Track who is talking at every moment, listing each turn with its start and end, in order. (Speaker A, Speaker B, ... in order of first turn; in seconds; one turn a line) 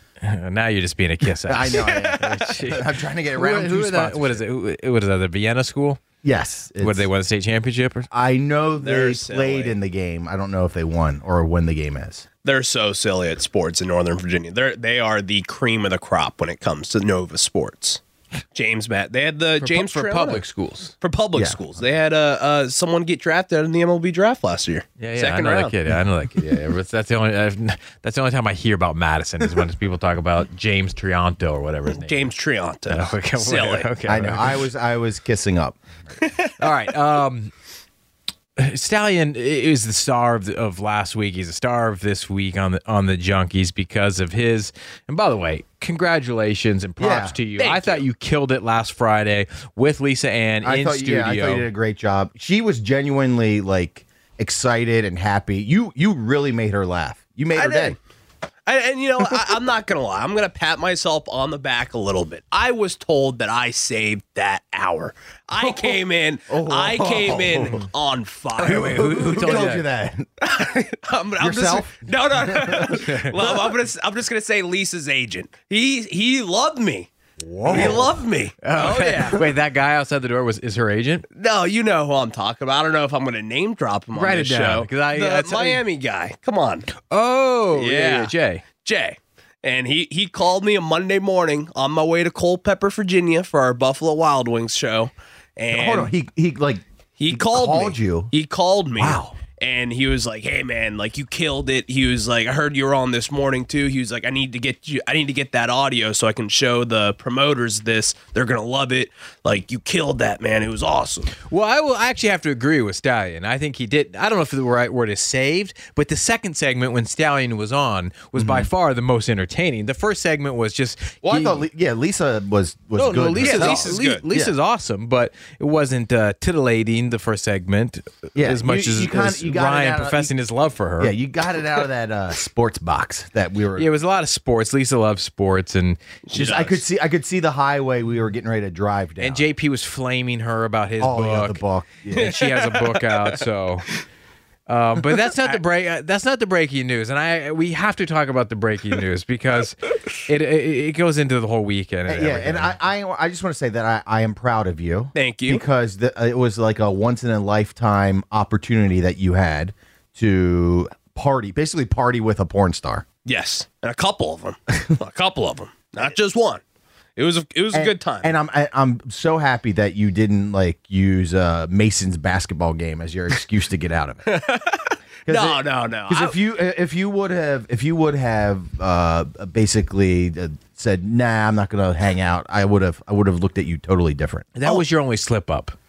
Speaker A: 0.2-6.0
Speaker B: 1.5-4.4
Speaker B: 6.2-7.1
Speaker A: 6.8-8.1
Speaker B: 8.1-12.2
Speaker C: 8.8-9.8
Speaker C: 12.4-18.0
Speaker C: 18.5-20.4
Speaker A: 19.6-20.9
Speaker C: 21.0-25.7
Speaker B: 21.4-21.6
Speaker A: 25.0-32.3
Speaker C: 31.9-33.9
Speaker A: 32.9-34.5
Speaker B: 34.1-35.8
Speaker C: 36.2-36.5
Speaker A: 36.6-37.5
Speaker A: 38.6-51.7
Speaker B: 47.0-47.4
Speaker C: 47.6-48.0
Speaker B: 50.6-58.0
Speaker C: 57.5-58.0
Speaker C: 58.7-69.1
Speaker B: 65.6-66.0
Speaker B: 66.5-67.9
Speaker A: 68.6-69.8
Speaker B: 68.6-70.3
Speaker C: 70.4-77.1
Speaker B: 71.4-73.7
Speaker A: 73.0-73.3
Speaker B: 77.4-78.1
Speaker A: 77.7-78.0
Speaker C: 77.7-79.5
Speaker A: 78.6-81.2
Speaker C: 81.3-86.9
Speaker A: 84.1-85.8
Speaker A: 87.0-88.6
Speaker C: 87.7-96.1
Speaker B: 95.7-98.3
Speaker C: 97.2-111.3
Speaker B: 99.0-99.4
Speaker A: 111.5-121.6
Speaker B: 118.4-118.7
Speaker B: 121.2-124.5
Speaker A: 123.0-131.1
Speaker C: 123.4-124.2
Speaker B: 128.4-130.3
Speaker B: 131.0-133.9
Speaker A: 133.8-136.0
Speaker C: 136.3-136.8
Speaker B: 136.3-139.5
Speaker A: 139.2-143.9
Speaker B: 141.0-142.3
Speaker C: 142.1-143.3
Speaker A: 144.7-152.8
Speaker B: 152.1-163.1
Speaker C: 155.2-155.6
Speaker C: 163.3-166.6
Speaker C: 167.2-168.3
Speaker B: 167.7-174.4
Speaker C: 174.3-176.4
Speaker B: 175.3-184.5
Speaker A: 184.6-185.8